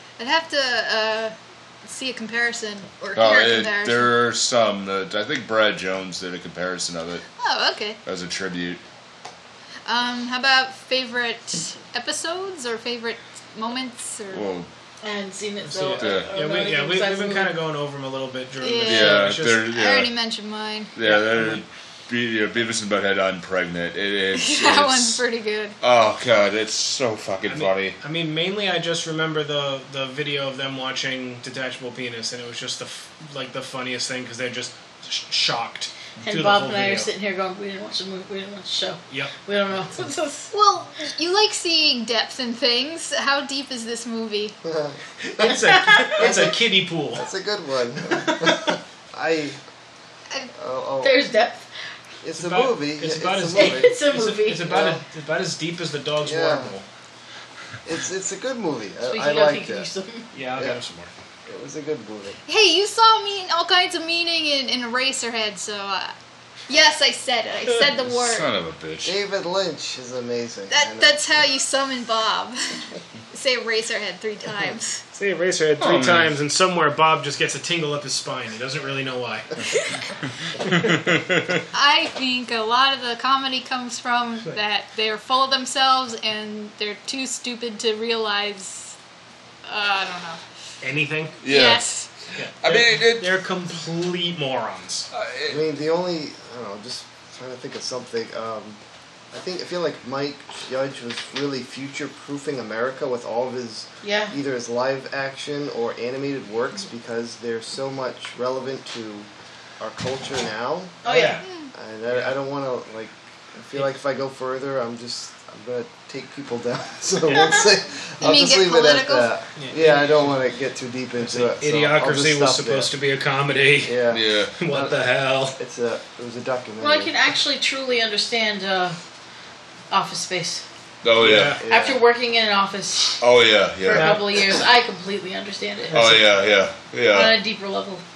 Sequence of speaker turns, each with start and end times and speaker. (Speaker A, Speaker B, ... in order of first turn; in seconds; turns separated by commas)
Speaker A: 0.2-4.2, Speaker B: 3.1-7.2, Speaker A: 7.4-8.0, Speaker B: 8.0-8.8, Speaker A: 9.8-14.5, Speaker B: 14.3-14.7, Speaker C: 15.0-17.6, Speaker D: 15.6-19.7, Speaker B: 16.0-16.3, Speaker A: 18.6-20.9, Speaker B: 18.9-20.1, Speaker B: 20.9-25.2, Speaker D: 21.0-21.6, Speaker A: 24.3-25.8, Speaker B: 25.8-28.0, Speaker D: 27.4-37.1, Speaker C: 36.2-40.5, Speaker D: 39.1-39.3, Speaker A: 40.5-44.5, Speaker E: 44.6-45.5, Speaker D: 45.2-47.3, Speaker C: 45.4-46.4, Speaker E: 46.2-46.6, Speaker E: 47.1-49.6, Speaker D: 48.2-48.8, Speaker E: 50.5-51.2, Speaker C: 51.0-51.7, Speaker E: 52.2-54.0, Speaker D: 52.3-56.8, Speaker C: 53.5-54.7, Speaker E: 54.6-55.0, Speaker E: 56.2-56.7, Speaker E: 57.8-59.9, Speaker C: 59.0-60.3, Speaker D: 60.3-61.1, Speaker E: 61.5-62.4, Speaker A: 62.5-66.1, Speaker A: 66.7-68.5, Speaker B: 68.1-69.2, Speaker E: 69.0-71.2, Speaker A: 70.7-75.0, Speaker D: 75.1-79.5, Speaker B: 75.8-76.3, Speaker A: 79.6-80.1, Speaker B: 80.6-81.6, Speaker A: 81.7-89.0, Speaker A: 89.6-90.4, Speaker D: 90.8-91.4, Speaker B: 91.4-93.4, Speaker A: 91.4-92.1, Speaker D: 92.3-95.1, Speaker B: 95.1-95.6, Speaker E: 95.5-98.8, Speaker E: 99.3-111.0, Speaker C: 104.0-104.3, Speaker C: 111.0-111.4, Speaker D: 111.0-111.5, Speaker A: 111.4-111.7, Speaker E: 111.7-122.9, Speaker D: 112.1-112.3, Speaker A: 118.2-119.3, Speaker D: 119.5-120.4, Speaker D: 121.2-125.6, Speaker E: 123.8-124.9, Speaker B: 124.1-124.7, Speaker E: 125.5-127.1, Speaker C: 126.8-129.0, Speaker C: 129.9-130.6, Speaker B: 131.0-131.6, Speaker D: 131.2-131.6, Speaker E: 131.2-132.0, Speaker C: 131.7-133.2, Speaker B: 133.2-134.2, Speaker C: 133.8-136.0, Speaker D: 133.9-134.3, Speaker D: 135.9-136.2, Speaker B: 135.9-137.4, Speaker C: 137.1-138.0